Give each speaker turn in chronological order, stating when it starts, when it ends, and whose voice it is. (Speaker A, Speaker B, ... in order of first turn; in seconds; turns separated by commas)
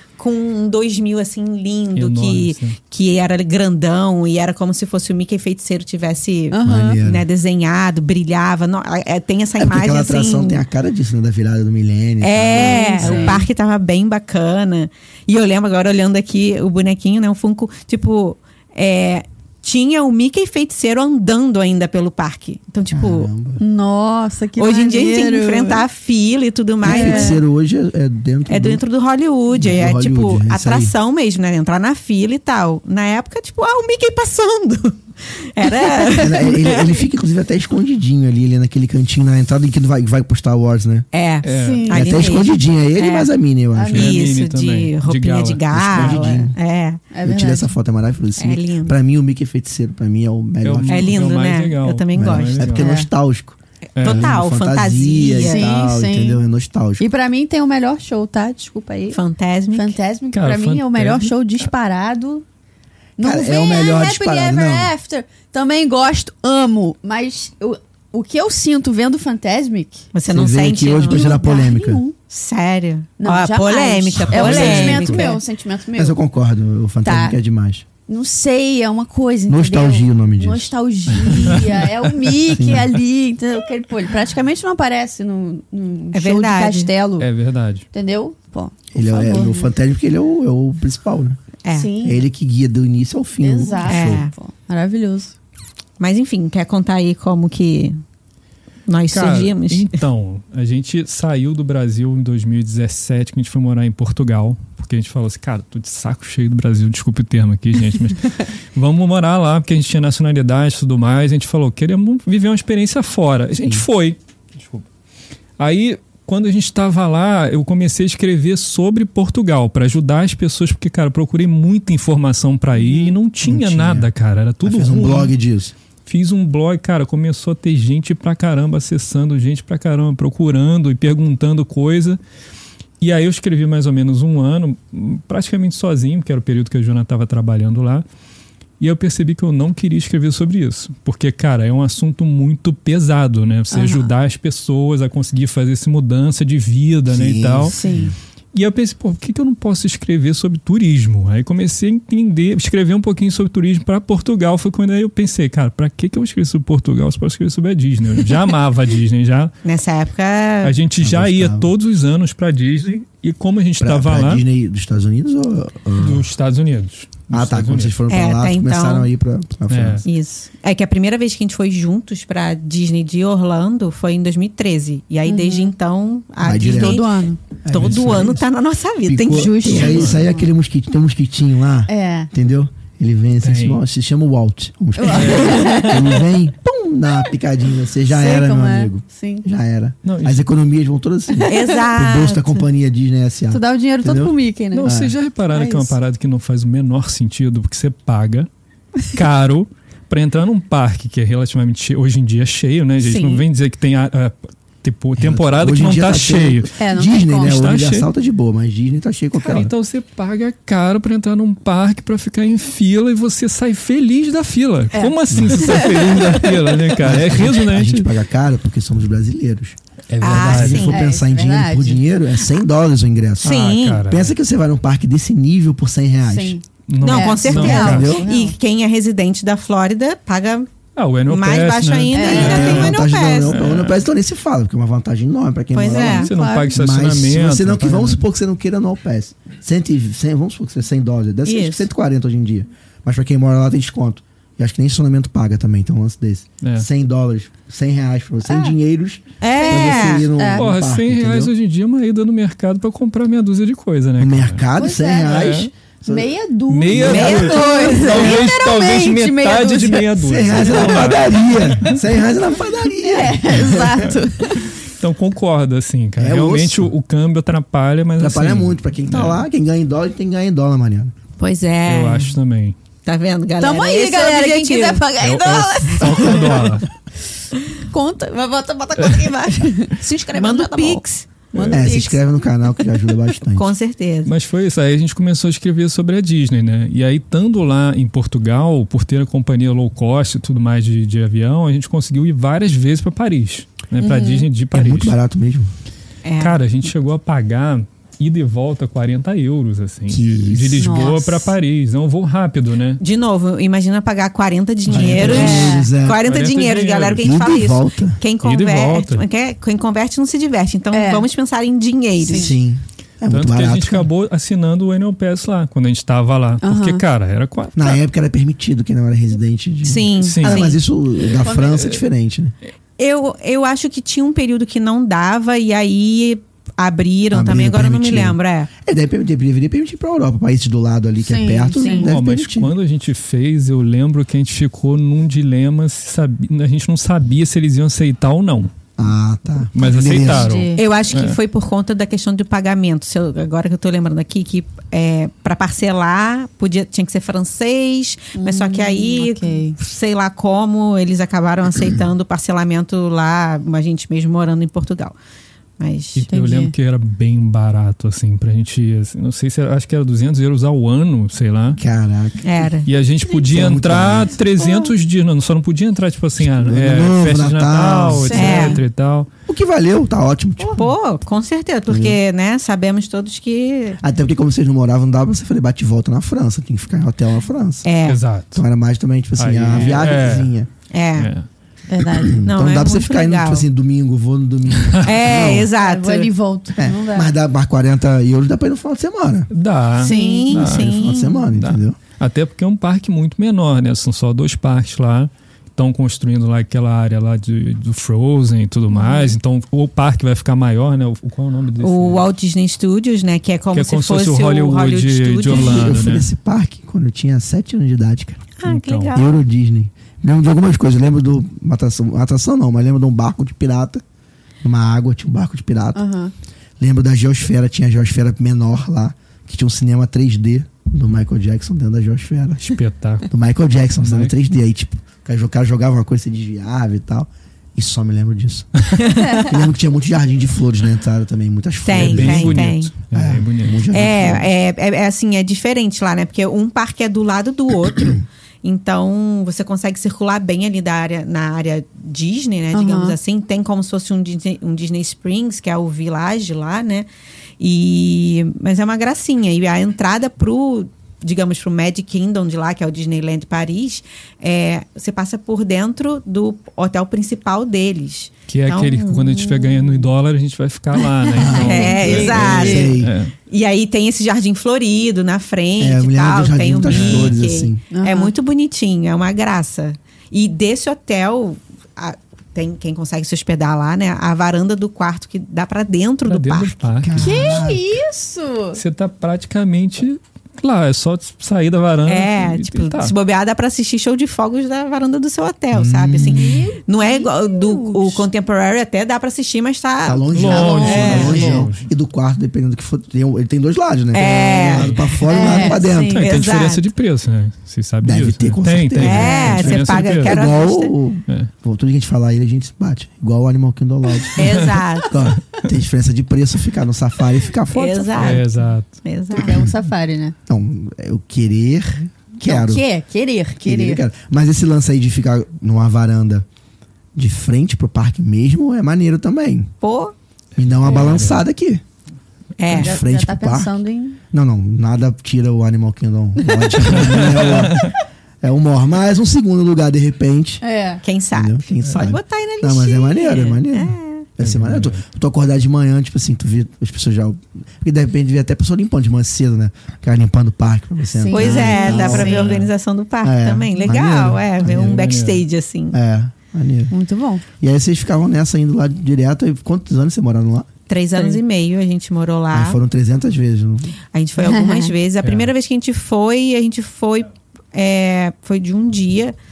Speaker A: 0.2-10.6, Speaker B: 1.9-2.8, Speaker C: 6.5-7.0, Speaker D: 6.6-7.3, Speaker D: 9.6-13.5, Speaker A: 12.2-23.3, Speaker C: 12.5-13.4, Speaker D: 22.9-23.6, Speaker C: 23.6-25.8, Speaker A: 24.6-27.4, Speaker D: 26.8-28.8, Speaker C: 26.8-27.4, Speaker A: 28.5-37.0, Speaker D: 29.5-30.9, Speaker D: 36.2-41.1, Speaker A: 41.1-43.3, Speaker B: 41.4-41.9, Speaker C: 41.5-42.3, Speaker D: 41.9-44.2, Speaker C: 43.7-44.1, Speaker A: 43.9-47.0, Speaker B: 43.9-46.4, Speaker D: 45.7-46.5, Speaker C: 47.1-47.7, Speaker D: 47.2-51.2, Speaker A: 48.4-49.0, Speaker B: 50.6-52.9, Speaker A: 50.9-52.7, Speaker D: 52.1-57.0, Speaker C: 52.7-53.1, Speaker B: 54.0-54.4, Speaker A: 54.0-55.7, Speaker C: 55.4-56.4, Speaker C: 57.0-59.2, Speaker A: 59.1-60.0, Speaker C: 59.7-62.4, Speaker B: 60.3-61.6, Speaker C: 63.2-70.0, Speaker D: 63.2-64.9, Speaker A: 70.1-71.4, Speaker D: 70.3-72.0, Speaker C: 71.0-72.2, Speaker A: 72.3-75.4, Speaker C: 73.2-76.2, Speaker B: 74.3-75.2, Speaker D: 75.9-77.8, Speaker C: 77.0-77.4, Speaker C: 78.1-87.3, Speaker D: 79.5-81.6, Speaker D: 82.5-82.9, Speaker A: 86.1-86.9, Speaker B: 87.2-87.8, Speaker C: 87.9-89.7, Speaker D: 88.9-91.4, Speaker A: 91.6-92.0, Speaker C: 91.7-92.2, Speaker D: 92.0-94.3, Speaker C: 93.4-95.3, Speaker A: 93.8-94.3, Speaker A: 96.0-98.0, Speaker A: 98.9-99.9, Speaker B: 99.1-114.8, Speaker B: 115.6-125.3, Speaker C: 122.8-123.1, Speaker D: 123.4-124.1, Speaker D: 124.6-125.7, Speaker B: 126.0-132.2, Speaker B: 133.0-138.0, Speaker B: 138.8-147.8, Speaker C: 143.7-144.1, Speaker D: 147.1-148.1, Speaker C: 147.7-148.1, Speaker B: 148.5-159.5, Speaker A: 159.6-160.8, Speaker B: 160.6-164.4, Speaker D: 161.0-161.7, Speaker D: 163.8-166.3, Speaker B: 166.0-168.0, Speaker D: 167.3-170.0, Speaker A: 168.1-169.1, Speaker B: 169.7-170.1, Speaker A: 170.0-180.0, Speaker C: 175.2-175.7, Speaker D: 176.4-177.0, Speaker C: 176.6-177.4, Speaker D: 177.6-178.5, Speaker B: 177.8-178.2, Speaker D: 179.1-195.1, Speaker C: 179.3-180.5, Speaker B: 179.7-180.2, Speaker C: 181.9-182.3, Speaker B: 183.4-183.8, Speaker C: 185.0-186.2, Speaker B: 185.1-185.8, Speaker A: 185.6-186.0, Speaker C: 188.1-189.4, Speaker B: 190.0-190.4, Speaker C: 191.3-191.8, Speaker A: 191.4-192.6, Speaker C: 193.5-194.9, Speaker B: 194.7-198.5, Speaker C: 195.5-195.9, Speaker B: 199.1-206.7, Speaker C: 203.0-203.4, Speaker D: 205.2-209.7, Speaker C: 206.8-207.6, Speaker B: 207.4-208.1, Speaker B: 209.3-218.1, Speaker C: 214.9-216.3, Speaker D: 215.3-216.3, Speaker D: 217.0-226.6, Speaker B: 220.1-220.9, Speaker A: 220.2-221.0, Speaker C: 220.9-222.0, Speaker B: 223.4-224.3, Speaker A: 223.4-224.0, Speaker C: 226.2-228.6, Speaker B: 226.9-228.1, Speaker A: 227.0-230.7, Speaker D: 227.5-228.3, Speaker B: 230.9-234.0, Speaker A: 231.3-233.6, Speaker C: 232.1-232.8, Speaker D: 232.2-251.5, Speaker A: 235.7-236.3, Speaker B: 236.0-238.2, Speaker C: 236.2-236.8, Speaker A: 241.4-241.9, Speaker B: 246.6-246.9, Speaker C: 248.4-248.7, Speaker A: 249.4-250.2, Speaker C: 249.6-250.7, Speaker B: 250.5-254.6, Speaker D: 254.2-256.3, Speaker C: 254.8-261.0, Speaker B: 255.2-255.7, Speaker B: 256.7-262.0, Speaker D: 256.9-257.6, Speaker A: 257.1-258.4, Speaker D: 260.2-264.1, Speaker C: 263.0-264.7, Speaker B: 263.7-269.4, Speaker D: 266.2-266.9, Speaker D: 268.2-271.1, Speaker A: 271.4-272.3, Speaker B: 271.8-272.8, Speaker A: 273.0-275.0, Speaker C: 273.6-276.7, Speaker B: 275.2-276.9, Speaker A: 276.1-276.8, Speaker C: 277.9-282.4, Speaker A: 280.3-281.3, Speaker B: 281.5-281.8, Speaker D: 281.7-283.7, Speaker A: 283.5-284.3, Speaker B: 284.2-295.1, Speaker C: 294.0-294.4, Speaker D: 294.7-295.7, Speaker A: 296.2-296.6, Speaker B: 296.4-303.0, Speaker D: 300.1-301.1, Speaker C: 300.8-301.5, Speaker A: 303.0-312.5, Speaker B: 304.9-305.7, Speaker D: 304.9-306.2, Speaker C: 305.3-305.9, Speaker B: 306.2-307.3, Speaker D: 307.2-308.2, Speaker B: 308.4-309.2, Speaker C: 310.9-311.3, Speaker C: 312.2-312.5, Speaker D: 312.3-314.1, Speaker B: 313.3-318.0, Speaker C: 316.6-317.0, Speaker D: 317.8-322.5, Speaker A: 319.8-320.8, Speaker B: 320.2-320.7, Speaker B: 321.4-322.0, Speaker C: 321.4-321.8, Speaker A: 323.0-328.7, Speaker D: 327.3-332.7, Speaker C: 331.2-332.1, Speaker B: 331.8-338.7, Speaker D: 339.0-340.5, Speaker B: 339.7-341.4, Speaker C: 340.1-340.8, Speaker A: 340.7-355.1, Speaker C: 348.3-349.8, Speaker A: 355.8-356.2, Speaker B: 356.1-361.8, Speaker C: 356.3-356.7, Speaker D: 361.8-362.7, Speaker A: 362.4-362.9, Speaker B: 362.8-369.3, Speaker D: 363.3-364.4, Speaker D: 366.4-368.5, Speaker C: 368.1-368.8, Speaker A: 368.3-368.8, Speaker D: 369.5-370.9, Speaker A: 370.6-374.0, Speaker D: 371.9-372.2, Speaker D: 374.0-377.9, Speaker A: 377.8-378.2, Speaker B: 378.0-378.6, Speaker D: 378.5-380.7, Speaker B: 379.4-380.5, Speaker A: 380.9-381.3, Speaker B: 381.1-381.5, Speaker C: 381.9-382.4, Speaker D: 382.0-385.7, Speaker A: 382.4-383.6, Speaker B: 384.8-385.5, Speaker A: 385.0-386.3, Speaker C: 385.8-387.3, Speaker D: 386.8-389.5, Speaker B: 389.5-390.9, Speaker A: 390.0-391.4, Speaker C: 390.0-390.5, Speaker D: 390.5-392.0, Speaker B: 391.5-402.3, Speaker C: 398.9-399.3, Speaker A: 401.8-405.9, Speaker B: 403.7-406.3, Speaker D: 405.4-408.5, Speaker A: 408.6-409.3, Speaker B: 408.6-409.1, Speaker D: 409.1-414.0, Speaker D: 414.6-416.0, Speaker C: 415.9-416.3, Speaker D: 416.8-434.5, Speaker B: 422.6-423.3, Speaker B: 424.0-424.3, Speaker A: 429.0-429.6, Speaker C: 429.1-429.5, Speaker A: 431.8-432.9, Speaker B: 431.9-433.9, Speaker A: 433.9-447.1, Speaker C: 442.7-443.2, Speaker A: 447.6-459.3, Speaker B: 458.5-463.3, Speaker C: 459.2-460.1, Speaker C: 461.2-462.9, Speaker D: 461.3-463.1, Speaker A: 461.6-476.9, Speaker D: 465.8-467.8, Speaker B: 466.8-467.4, Speaker C: 467.9-468.3, Speaker B: 476.2-477.6, Speaker D: 477.0-477.9, Speaker C: 477.2-478.8, Speaker B: 478.7-483.1, Speaker A: 482.1-491.7, Speaker D: 485.7-486.6, Speaker C: 486.1-488.2, Speaker D: 490.0-496.3, Speaker B: 490.3-491.9, Speaker A: 494.1-496.9, Speaker B: 494.4-495.2, Speaker C: 495.3-496.2, Speaker B: 496.1-500.4, Speaker D: 498.0-508.4, Speaker A: 499.0-500.9, Speaker C: 499.1-499.6, Speaker A: 504.4-505.2, Speaker B: 504.4-504.8, Speaker A: 507.7-508.5, Speaker B: 508.2-509.0, Speaker A: 509.0-509.6, Speaker C: 509.3-510.3, Speaker D: 510.5-512.8, Speaker C: 512.4-514.0, Speaker D: 513.6-516.4, Speaker D: 517.1-519.7, Speaker A: 519.8-520.1, Speaker D: 520.6-521.8, Speaker B: 520.6-521.4, Speaker A: 522.6-523.0, Speaker D: 522.7-523.8, Speaker C: 522.7-524.2, Speaker D: 524.3-530.6, Speaker C: 526.4-526.8, Speaker B: 526.8-527.9, Speaker C: 530.6-531.0, Speaker A: 531.0-534.3, Speaker D: 531.3-542.6, Speaker B: 534.4-535.0, Speaker C: 541.1-542.6, Speaker A: 541.3-546.0, Speaker B: 541.9-542.7, Speaker D: 543.2-545.0, Speaker B: 544.6-545.4, Speaker D: 545.9-546.9, Speaker C: 546.9-547.4, Speaker D: 547.6-550.7, Speaker A: 550.9-552.8, Speaker C: 551.1-551.4, Speaker D: 552.5-554.0, Speaker A: 554.1-559.3, Speaker C: 554.4-554.9, Speaker B: 555.2-555.5